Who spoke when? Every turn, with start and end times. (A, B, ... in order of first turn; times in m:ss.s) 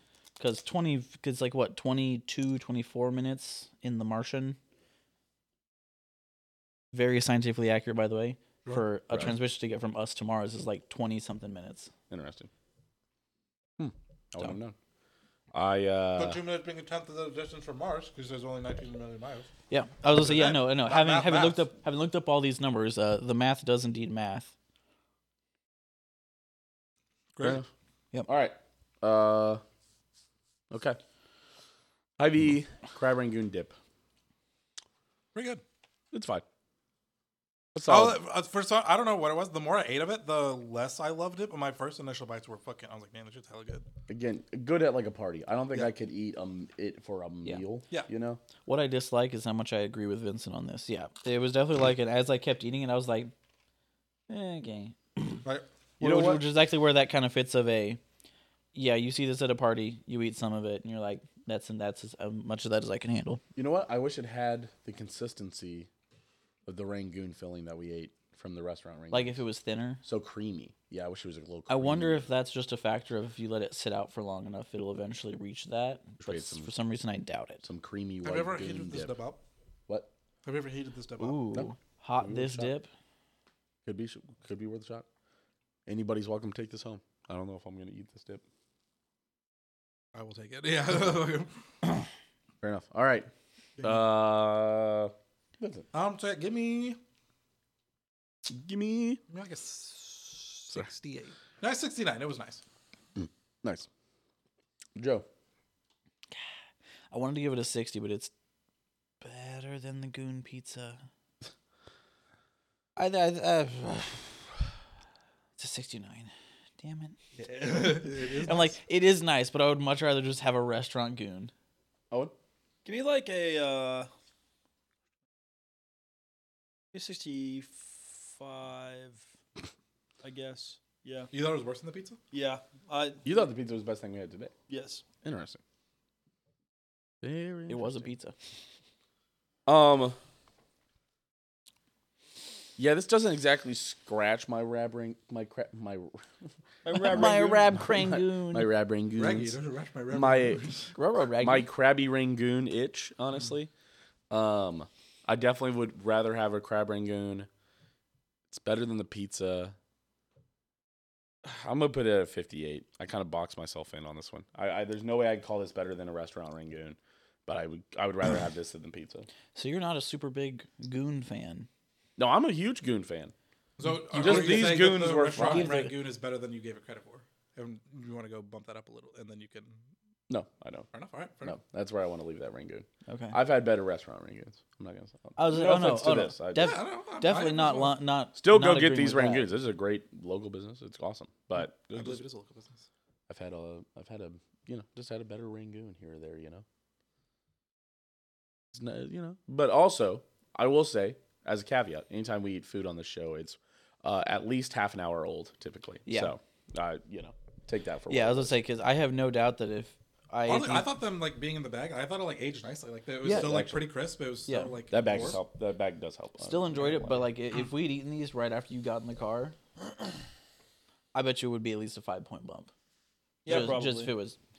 0:00.4-0:04.6 A
0:06.9-0:11.9 A
0:12.1-0:12.5 B
0:13.8-0:14.7 B
0:15.5-0:16.4 B
0:16.2-0:19.5 C
0:19.7-0:24.5 A
0:20.2-0:21.7 C
0:27.3-0:27.6 C
0:27.4-0:27.7 B
0:28.3-0:29.6 B
0:30.7-0:31.0 B
0:32.2-0:33.7 B
0:35.3-0:35.6 C
0:36.1-0:36.4 B
0:37.7-0:38.2 B
0:37.9-0:43.9 C
0:44.1-0:48.4 B
0:48.6-0:53.3 A
0:54.3-0:55.4 A
0:56.0-0:56.4 B
0:56.0-0:58.0 A
0:58.7-1:03.4 A
1:03.6-1:05.9 B
1:06.6-1:09.4 B
1:09.1-1:10.0 A
1:10.0-1:12.3 B
1:11.7-1:17.6 A
1:16.2-1:16.7 B
1:17.6-1:19.1 B
1:18.2-1:19.4 C
1:20.4-1:21.4 C
1:21.2-1:22.9 A
1:21.5-1:22.7 B
1:23.9-1:25.0 B
1:25.9-1:28.4 B
1:30.1-1:31.5 C
1:32.6-1:33.3 B
1:33.8-1:35.9 B
1:35.9-1:37.0 C
1:38.5-1:39.2 B
1:39.3-1:42.6 C
1:43.2-1:43.9 B
1:45.0-1:45.2 B
1:47.1-1:48.3 A
1:49.2-1:51.0 A
1:53.0-1:54.5 A
1:55.6-2:01.5 A
1:57.4-1:58.8 C
2:02.8-2:04.1 D
2:06.9-2:09.3 D
2:10.2-2:11.3 D
2:11.3-2:12.2 C
2:12.3-2:13.3 D
2:13.2-2:14.5 B
2:14.7-2:15.0 D
2:15.2-2:15.6 B
2:17.2-2:18.1 B
2:17.7-2:18.3 A
2:19.6-2:20.2 B
2:22.8-2:26.2 B
2:26.8-2:27.7 D
2:26.9-2:28.7 A
2:27.0-2:29.6 B
2:29.1-2:30.9 C
2:30.1-2:30.6 B
2:30.9-2:31.7 A
2:31.4-2:33.7 B
2:34.3-2:37.5 B
2:38.5-2:39.8 B
2:41.4-2:49.3 B
2:49.6-2:51.7 A
2:52.2-2:53.3 B
2:53.8-2:59.8 C
2:54.1-2:55.8 B
2:54.1-2:54.7 A
2:55.3-2:56.0 A
3:00.3-3:00.9 B
3:00.9-3:01.6 C
3:01.4-3:06.8 B
3:03.1-3:03.4 A
3:05.4-3:09.5 A
3:06.6-3:08.0 C
3:08.4-3:12.2 B
3:11.9-3:12.9 C
3:13.3-3:16.6 B
3:18.7-3:28.6 B
3:26.1-3:26.3 A
3:28.1-3:30.9 A
3:30.4-3:35.4 C
3:33.2-3:33.6 A
3:33.2-3:33.9 B
3:34.5-3:34.7 A
3:34.9-3:37.3 B
3:36.4-3:39.6 A
3:41.1-3:42.7 A
3:43.4-3:44.1 D
3:43.5-3:44.4 A